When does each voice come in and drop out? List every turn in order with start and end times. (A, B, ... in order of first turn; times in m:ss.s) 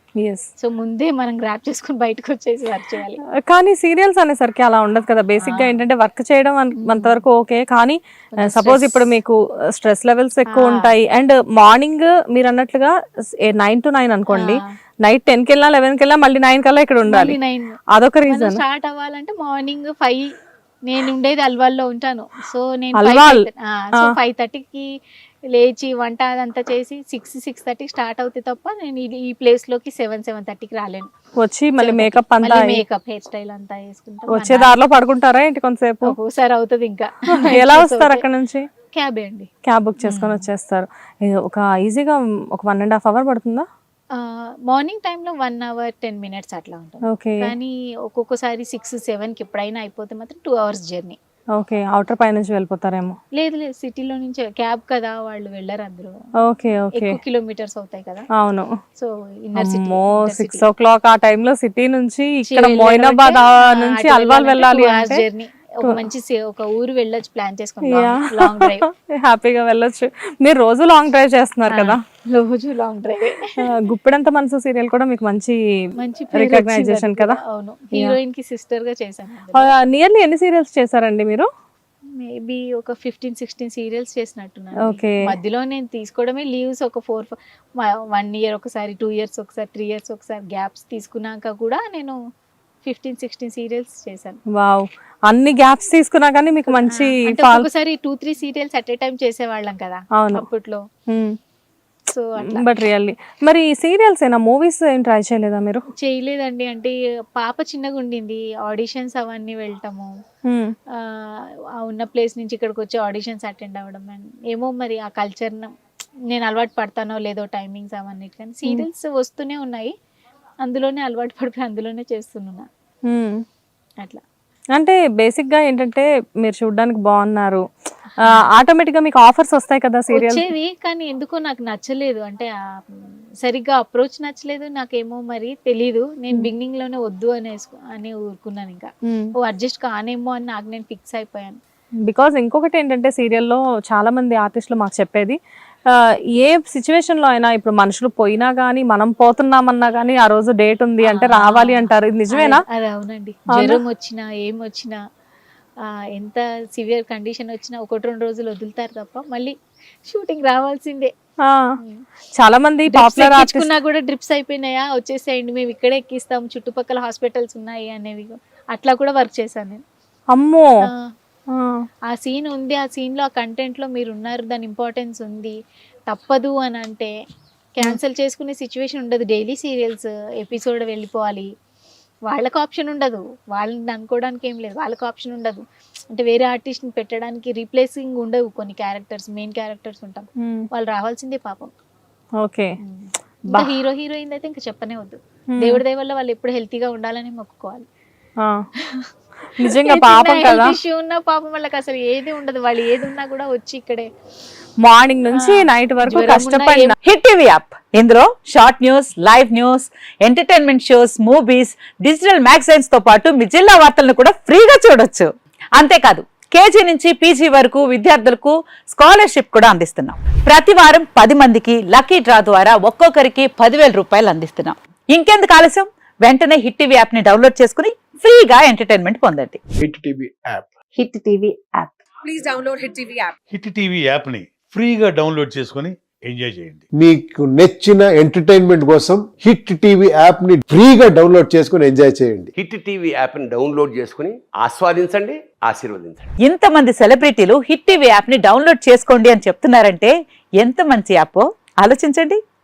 0:00.6-0:03.2 A
0:03.5-0:17.4 B
0:05.4-0:05.8 A
0:06.8-0:07.2 A
0:08.3-0:09.0 A
0:10.5-0:10.9 A
0:14.3-0:14.7 A
0:17.1-0:17.8 A
0:17.9-0:18.6 B
0:18.3-0:20.3 A
0:20.9-0:24.9 A
0:23.0-0:24.2 B
0:25.5-0:31.1 A
0:31.4-0:32.8 B
0:31.8-0:34.7 A
0:34.3-0:36.2 B
0:36.0-0:38.2 A
0:37.5-0:38.6 B
0:38.9-0:39.5 A
0:39.6-0:43.7 B
0:40.0-0:40.4 A
0:44.1-0:51.2 A
0:47.1-0:47.5 B
0:51.6-0:53.2 B
0:53.4-0:56.2 A
0:56.4-0:57.2 B
0:56.9-0:58.3 A
0:58.4-0:58.7 B
0:59.0-1:00.6 A
0:59.6-1:05.2 B
1:02.5-1:08.8 A
1:07.9-1:12.0 B
1:11.7-1:13.7 A
1:13.6-1:15.6 B
1:16.0-1:19.7 A
1:16.3-1:17.4 B
1:19.6-1:21.5 B
1:22.2-1:32.2 A
1:24.8-1:25.2 B
1:32.8-1:34.4 A
1:34.5-1:37.7 B
1:36.8-1:40.8 A
1:40.2-1:40.4 B
1:41.1-1:41.4 B
1:42.1-1:42.6 A
1:42.5-1:45.8 B
1:46.0-1:50.1 A
1:50.5-1:50.7 B
1:51.0-1:55.7 A
1:56.3-1:59.9 A
2:00.6-2:02.7 A
2:03.1-2:03.4 B
2:04.8-2:07.6 B
2:08.3-2:10.4 B
2:10.1-2:18.9 A
2:19.4-2:21.6 A
2:22.1-2:25.4 B
2:26.4-2:32.6 B
2:31.0-2:35.0 A
2:33.6-2:33.8 B
2:36.1-2:39.5 A
2:40.1-2:41.1 A
2:42.4-2:43.7 B
2:42.9-2:49.8 A
2:50.3-2:50.7 B
2:51.5-2:51.8 B
2:52.1-2:55.6 A
2:56.1-2:57.1 A
2:57.8-3:01.5 A
3:02.3-3:11.7 A
3:10.4-3:10.7 B
3:12.4-3:12.8 B
3:12.8-3:17.8 A
3:15.5-3:15.8 B
3:19.6-3:20.8 B
3:19.6-3:24.1 A
3:24.8-3:27.0 B
3:25.3-3:27.0 A
3:27.0-3:49.6 C
3:49.8-3:50.7 D
3:51.0-3:52.0 C
3:53.5-3:56.9 E
3:56.9-4:02.5 D
4:02.6-4:06.3 F
4:06.4-4:12.4 C